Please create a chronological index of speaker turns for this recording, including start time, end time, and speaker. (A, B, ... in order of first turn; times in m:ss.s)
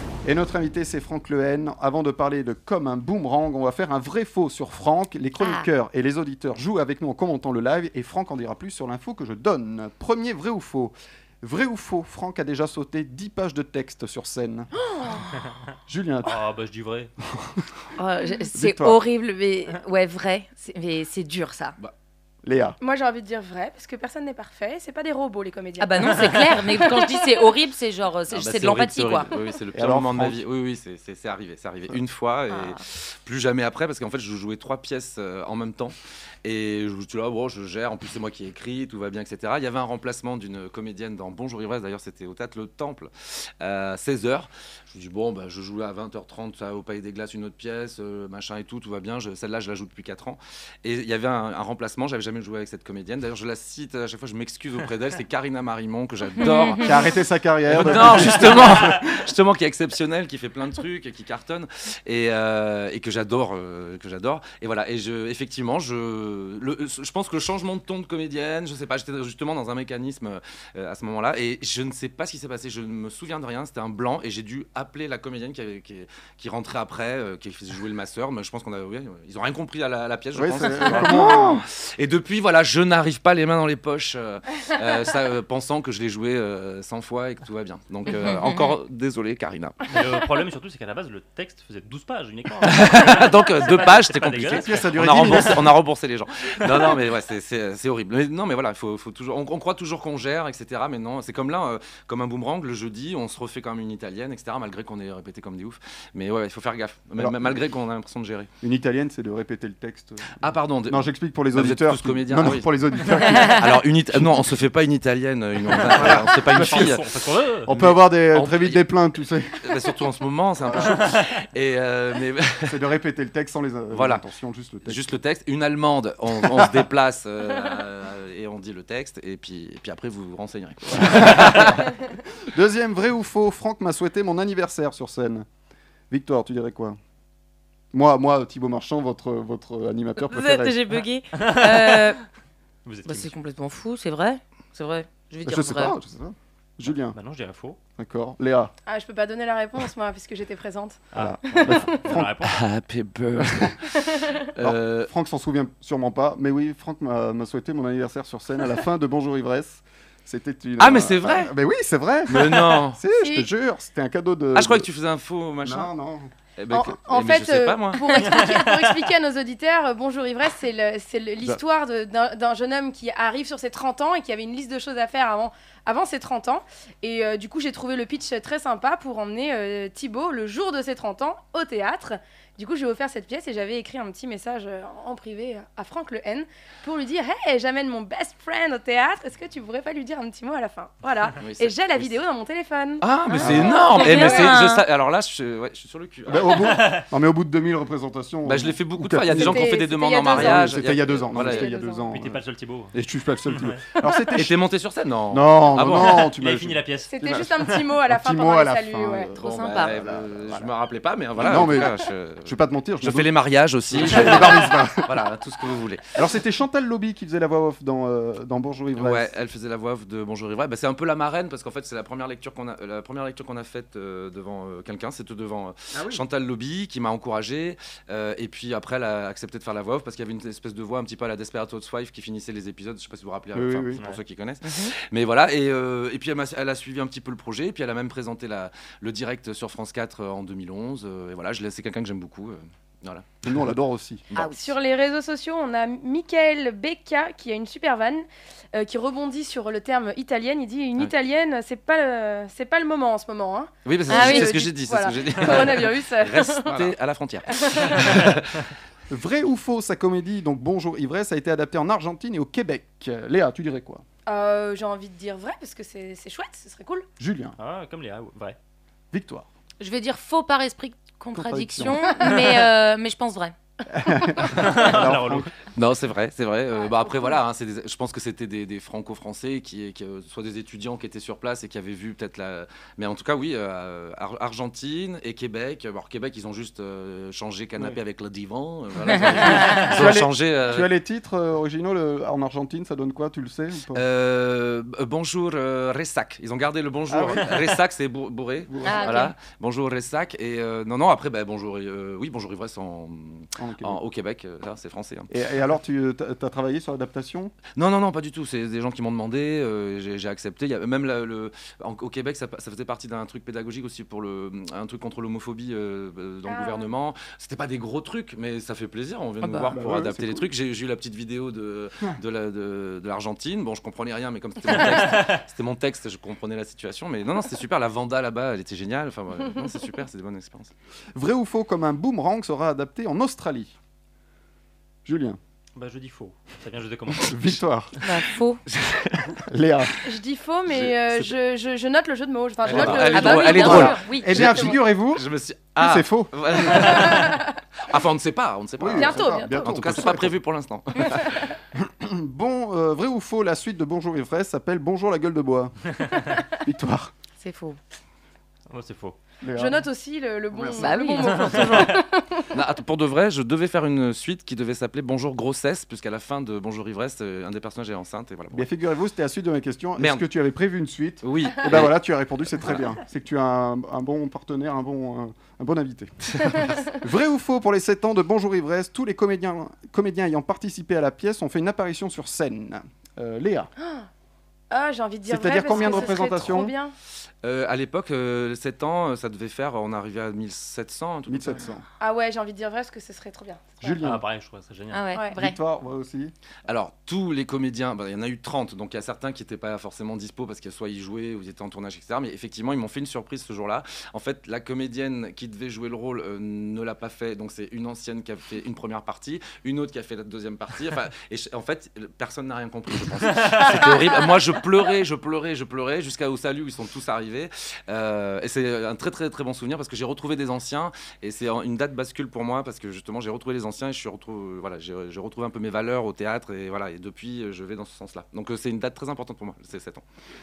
0:00.2-0:14.7 A
0:05.4-0:05.7 B
0:14.8-0:15.4 C
0:15.9-0:16.4 A
0:16.2-0:17.1 D
0:17.4-0:17.6 A
0:18.0-0:21.8 B
0:18.5-0:19.0 A
0:22.4-0:22.8 A
0:22.8-0:27.2 C
0:25.8-0:29.3 B
0:28.3-0:57.0 E
0:29.7-0:30.4 A
0:32.5-0:32.8 B
0:56.4-0:57.0 B
0:56.8-0:59.1 A
0:57.7-1:29.9 E
1:20.4-1:21.6 A
1:28.1-1:28.8 B
1:29.9-1:35.5 D
1:32.6-1:48.5 E
1:34.5-1:35.7 A
1:47.2-1:47.6 A
1:48.6-1:54.5 A
1:50.4-1:57.1 E
1:55.7-1:57.8 D
1:55.9-1:57.0 A
1:57.6-1:59.9 A
1:57.7-1:58.9 E
1:59.6-2:02.9 E
2:00.6-2:01.0 A
2:02.6-2:05.1 A
2:03.9-2:04.2 E
2:04.8-2:12.0 E
2:06.3-2:06.8 A
2:10.9-2:11.9 A
2:12.5-2:15.4 A
2:16.1-2:17.0 A
2:17.9-2:20.8 A
2:20.2-2:22.2 B
2:21.3-2:22.2 D
2:22.8-2:23.4 D
2:23.0-2:26.0 B
2:25.4-2:27.2 A
2:26.9-2:27.8 D
2:28.0-2:28.7 A
2:28.8-2:32.0 C
2:31.1-2:32.6 D
2:31.2-2:32.3 A
2:32.4-2:35.1 E
2:33.8-2:34.4 C
2:34.6-2:44.9 A
2:40.8-2:41.5 E
2:42.3-2:43.0 E
2:43.2-2:43.5 C
2:44.5-2:45.9 E
2:45.6-2:46.3 A
2:46.6-2:48.0 E
2:46.7-3:13.1 C
2:48.2-2:48.8 D
3:11.4-3:12.2 E
3:13.0-3:16.7 E
3:13.3-3:14.8 B
3:13.4-3:13.8 A
3:16.3-3:19.7 A
3:16.6-3:17.0 D
3:18.4-3:21.7 E
3:19.3-3:22.1 C
3:20.3-3:22.4 A
3:22.1-3:23.0 D
3:22.9-3:24.6 A
3:23.5-3:24.0 D
3:24.3-3:26.3 E
3:25.3-3:27.5 A
3:26.0-3:27.9 D
3:27.1-3:29.4 C
3:28.0-3:30.7 A
3:29.4-3:29.9 B
3:29.6-3:36.2 E
3:31.4-3:33.3 A
3:33.9-3:35.2 A
3:36.2-3:39.3 A
3:39.0-4:03.6 E
3:45.9-3:46.2 A
3:53.5-3:54.1 A
3:54.6-3:55.0 B
4:03.4-4:04.2 A
4:04.4-4:04.7 B
4:04.5-4:16.9 C
4:13.8-4:18.7 E
4:14.1-4:14.5 B
4:17.5-4:18.0 C
4:19.1-4:24.0 A
4:24.3-4:27.1 C
4:27.2-4:27.6 A
4:27.6-4:28.6 D
4:29.1-4:29.5 A
4:29.8-4:33.6 B
4:31.3-4:32.0 A
4:33.9-4:35.5 A
4:34.5-4:35.5 D
4:35.7-4:50.9 E
4:49.2-4:54.0 A
4:53.9-5:05.3 E
4:57.1-4:57.6 A
4:58.7-4:59.2 A
4:58.8-4:59.4 B
5:03.6-5:04.0 A
5:05.3-5:07.5 A
5:07.8-5:30.7 E
5:16.4-5:16.9 C
5:19.4-5:19.7 B
5:19.6-5:20.5 A
5:31.2-5:33.7 A
5:35.0-5:35.4 A
5:35.8-5:37.5 D
5:37.2-5:38.0 A
5:38.0-5:38.6 B
5:38.7-5:39.4 E
5:39.5-5:39.9 A
5:40.0-5:44.7 C
5:40.7-5:41.3 E
5:42.6-5:51.5 E
5:42.7-5:44.7 B
5:43.6-5:45.2 A
5:45.8-5:47.0 A
5:46.8-5:47.5 C
5:48.8-5:50.4 A
5:48.9-5:49.8 C
5:51.7-5:55.8 A
5:56.4-5:57.1 A
5:57.4-5:57.8 B
5:58.7-5:59.2 D
5:59.4-5:59.9 A
5:59.5-6:02.5 C
6:00.5-6:01.0 A
6:00.7-6:02.0 B
6:01.2-6:02.0 D
6:02.5-6:08.7 E
6:08.5-6:23.7 A
6:10.0-6:10.2 E
6:11.2-6:12.0 E
6:23.8-6:24.1 C
6:24.7-6:26.9 C
6:25.3-6:26.7 A
6:27.4-6:31.7 E
6:31.3-6:31.8 A
6:32.0-6:34.0 C
6:33.8-6:34.2 A
6:34.0-6:35.1 D
6:34.9-6:35.6 B
6:35.1-6:35.4 C
6:35.3-6:36.3 A
6:36.7-7:10.0 E